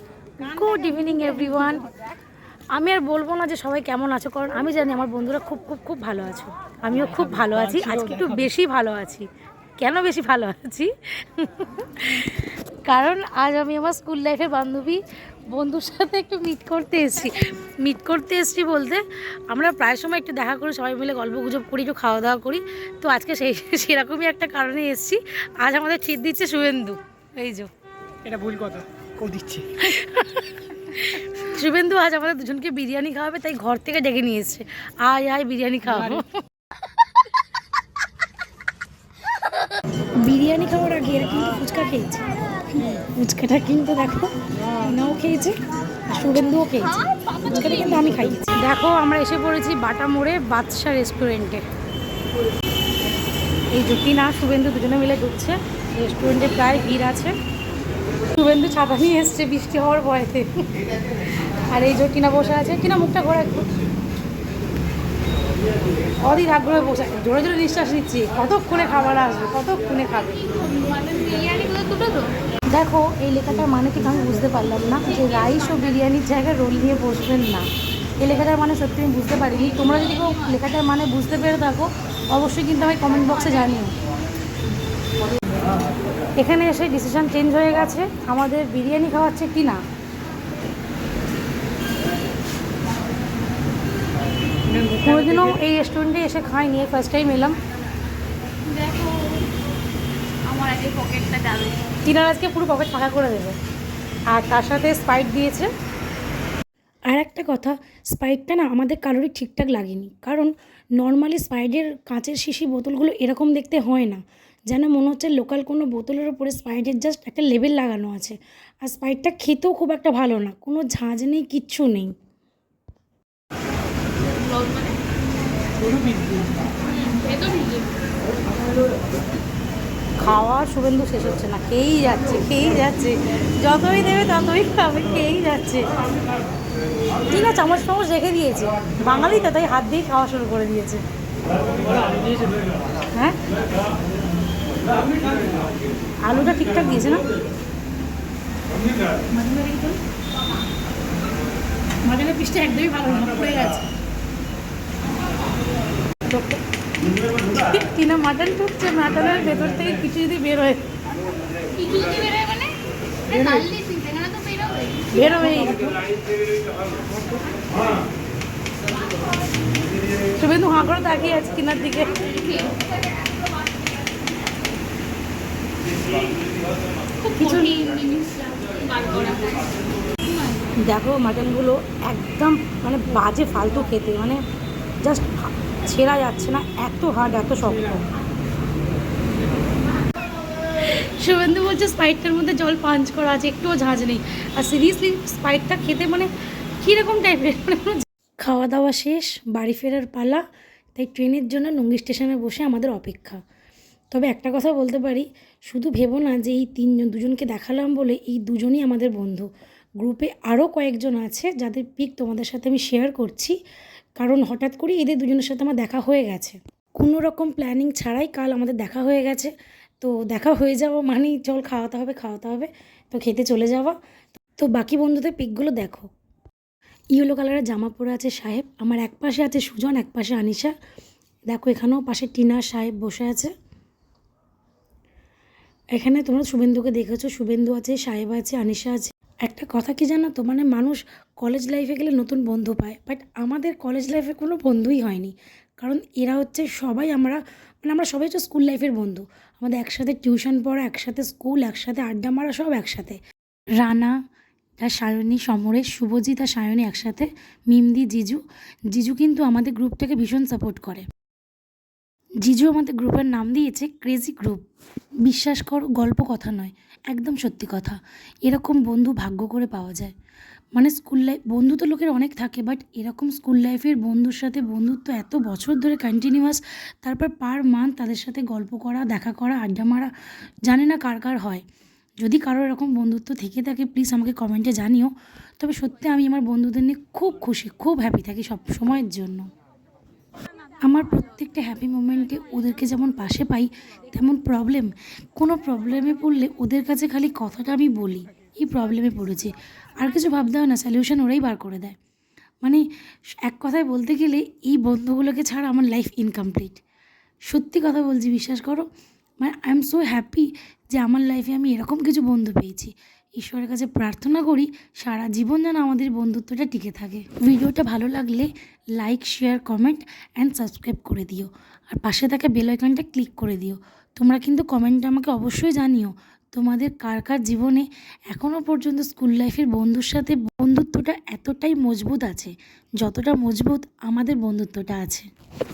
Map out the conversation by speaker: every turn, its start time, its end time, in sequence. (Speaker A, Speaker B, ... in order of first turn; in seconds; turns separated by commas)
Speaker A: 0.4-1.8, Speaker A: 2.7-9.2, Speaker B: 7.2-8.4, Speaker A: 9.8-27.7, Speaker B: 28.2-29.8, Speaker A: 29.8-36.3, Speaker A: 40.2-42.2, Speaker A: 43.0-45.5, Speaker A: 46.1-51.6, Speaker C: 47.1-47.6, Speaker A: 53.7-57.3, Speaker A: 58.3-60.6, Speaker A: 61.7-63.7, Speaker A: 66.2-70.4, Speaker C: 70.4-72.4, Speaker A: 72.7-77.7, Speaker A: 78.2-83.9, Speaker C: 80.0-80.4, Speaker A: 86.4-89.8, Speaker B: 94.7-95.1, Speaker A: 94.9-97.5, Speaker C: 98.6-99.5, Speaker C: 100.4-101.8, Speaker A: 102.0-103.5, Speaker A: 104.3-105.7, Speaker A: 107.1-122.1, Speaker C: 124.4-125.0, Speaker B: 125.8-126.5, Speaker C: 126.8-127.9, Speaker A: 130.2-135.9, Speaker A: 137.3-141.0, Speaker A: 143.1-143.4, Speaker A: 146.2-147.2, Speaker A: 149.3-150.0, Speaker A: 152.0-153.9, Speaker A: 156.3-156.6, Speaker A: 157.5-160.8, Speaker C: 161.7-165.5, Speaker A: 165.1-165.9, Speaker A: 170.4-172.2, Speaker C: 172.2-172.8, Speaker C: 177.2-180.6, Speaker A: 177.4-177.9, Speaker A: 180.8-184.4, Speaker A: 185.0-188.0, Speaker A: 190.8-200.4, Speaker A: 200.9-203.4, Speaker A: 204.1-209.5, Speaker A: 210.0-213.5, Speaker A: 214.2-223.9, Speaker A: 224.6-226.1, Speaker A: 227.1-230.7, Speaker A: 231.5-233.5, Speaker A: 235.9-253.2, Speaker A: 253.8-254.2, Speaker A: 254.8-261.0, Speaker A: 262.4-264.6, Speaker A: 265.2-270.1, Speaker A: 270.7-280.1, Speaker A: 280.7-281.6, Speaker A: 282.2-289.4, Speaker A: 290.9-302.0, Speaker A: 303.4-306.8, Speaker A: 307.5-308.9, Speaker A: 309.4-335.3